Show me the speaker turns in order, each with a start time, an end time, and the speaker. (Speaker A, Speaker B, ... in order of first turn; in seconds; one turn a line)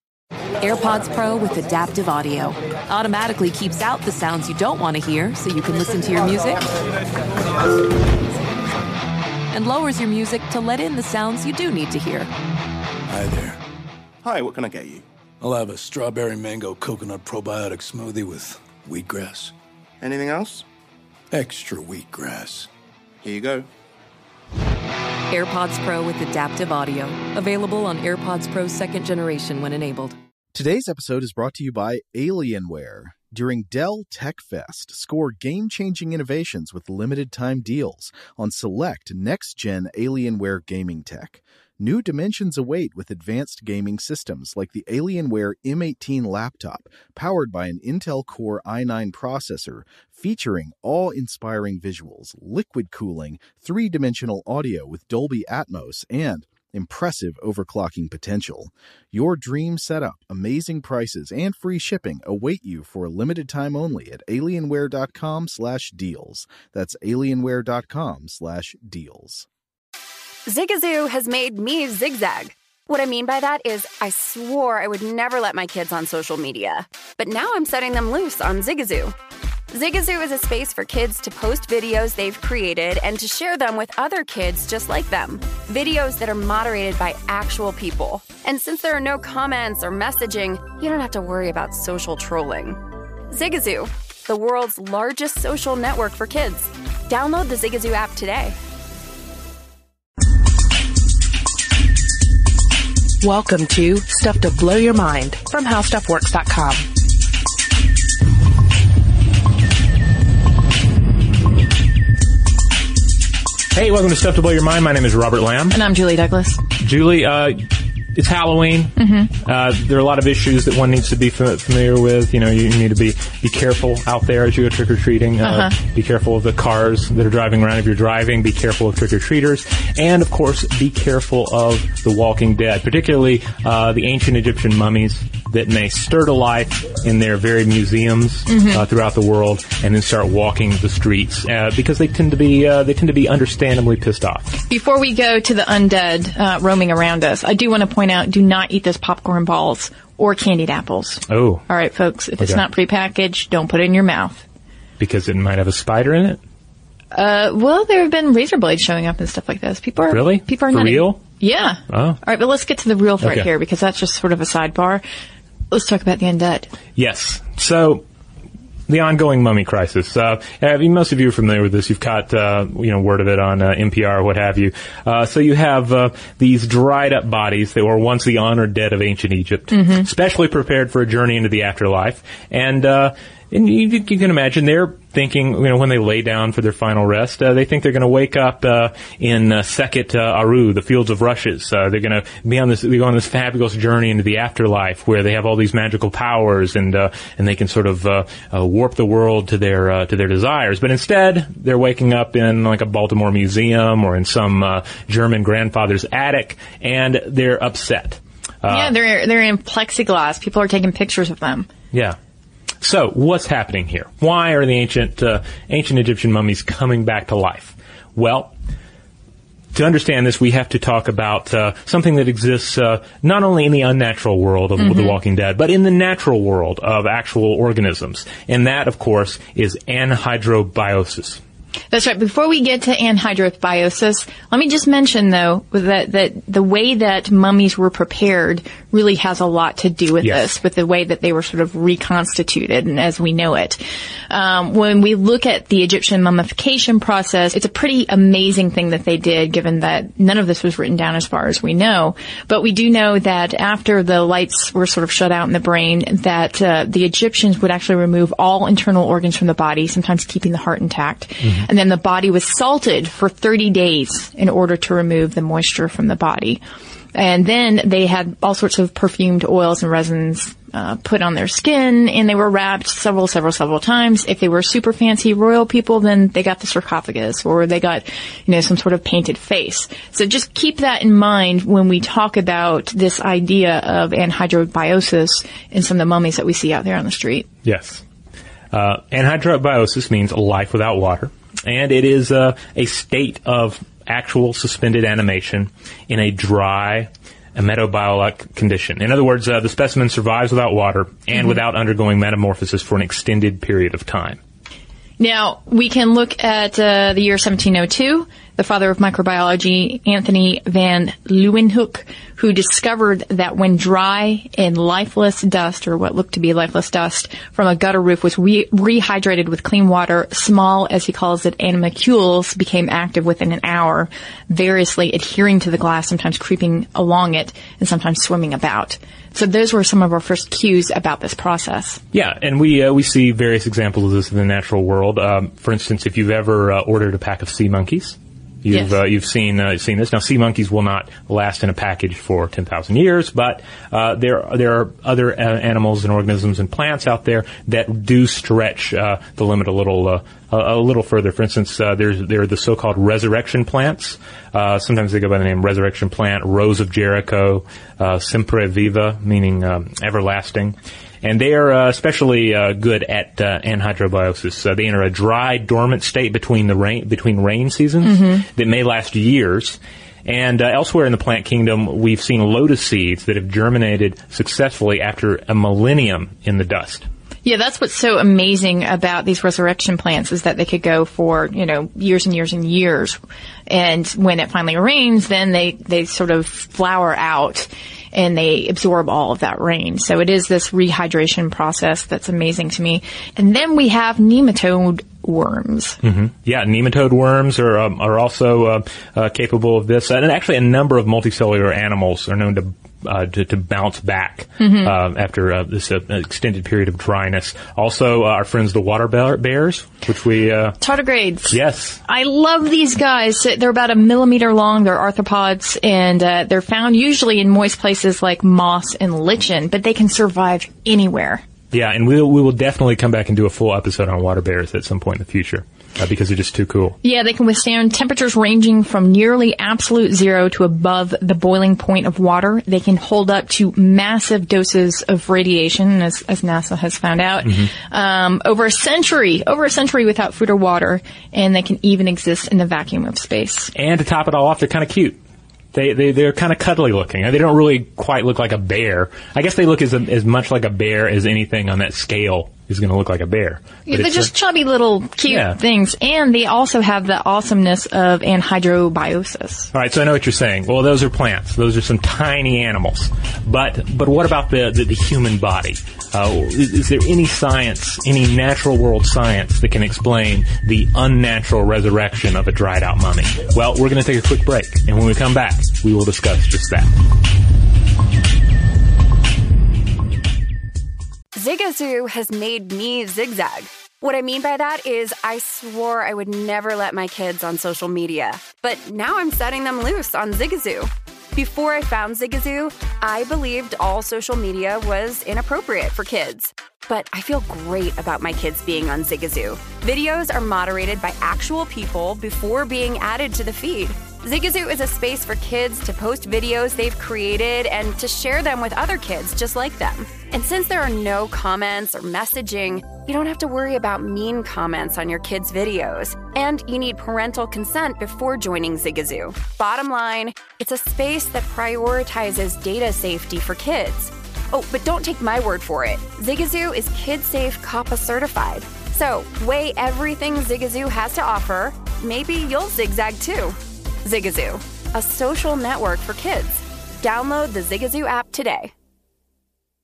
Speaker A: 0.6-6.7
Speaker A: 9.5-12.3
Speaker B: 13.1-13.6
Speaker C: 14.2-15.1
Speaker B: 15.4-19.5
Speaker C: 20.0-20.6
Speaker B: 21.3-22.7
Speaker C: 23.2-23.7
Speaker A: 25.3-30.2
Speaker D: 30.5-69.5
Speaker E: 70.5-79.2
Speaker E: 79.7-98.6
Speaker F: 103.2-106.9
Speaker G: 113.7-115.8
Speaker H: 115.7-116.6
Speaker G: 116.8-144.5
Speaker H: 119.0-119.3
Speaker H: 125.4-125.7
Speaker H: 138.5-138.8
Speaker H: 144.7-154.4
Speaker G: 151.3-151.7
Speaker G: 155.0-156.4
Speaker H: 157.1-165.0
Speaker G: 160.1-161.2
Speaker G: 161.9-162.2
Speaker G: 163.2-163.5
Speaker H: 165.7-166.7
Speaker G: 167.0-168.1
Speaker G: 168.9-209.0
Speaker H: 179.7-180.1
Speaker H: 208.7-211.7
Speaker G: 211.9-212.2
Speaker G: 212.8-218.5
Speaker G: 219.7-231.4
Speaker H: 224.8-225.2
Speaker H: 231.9-266.6
Speaker G: 240.2-240.5
Speaker H: 267.1-287.5
Speaker G: 287.6-288.0
Speaker G: 288.7-304.4
Speaker H: 305.2-332.0
Speaker G: 332.1-377.1
Speaker H: 338.7-339.0
Speaker H: 368.0-368.4
Speaker H: 377.4-396.0
Speaker G: 396.0-410.8
Speaker H: 404.6-404.9
Speaker H: 410.8-421.4
Speaker G: 411.5-412.0
Speaker G: 421.7-427.0
Speaker H: 427.0-443.7
Speaker G: 437.5-437.7
Speaker G: 443.8-445.2
Speaker G: 445.7-454.3
Speaker H: 453.9-459.7
Speaker G: 455.3-455.6
Speaker G: 459.7-476.9
Speaker E: 481.4-538.7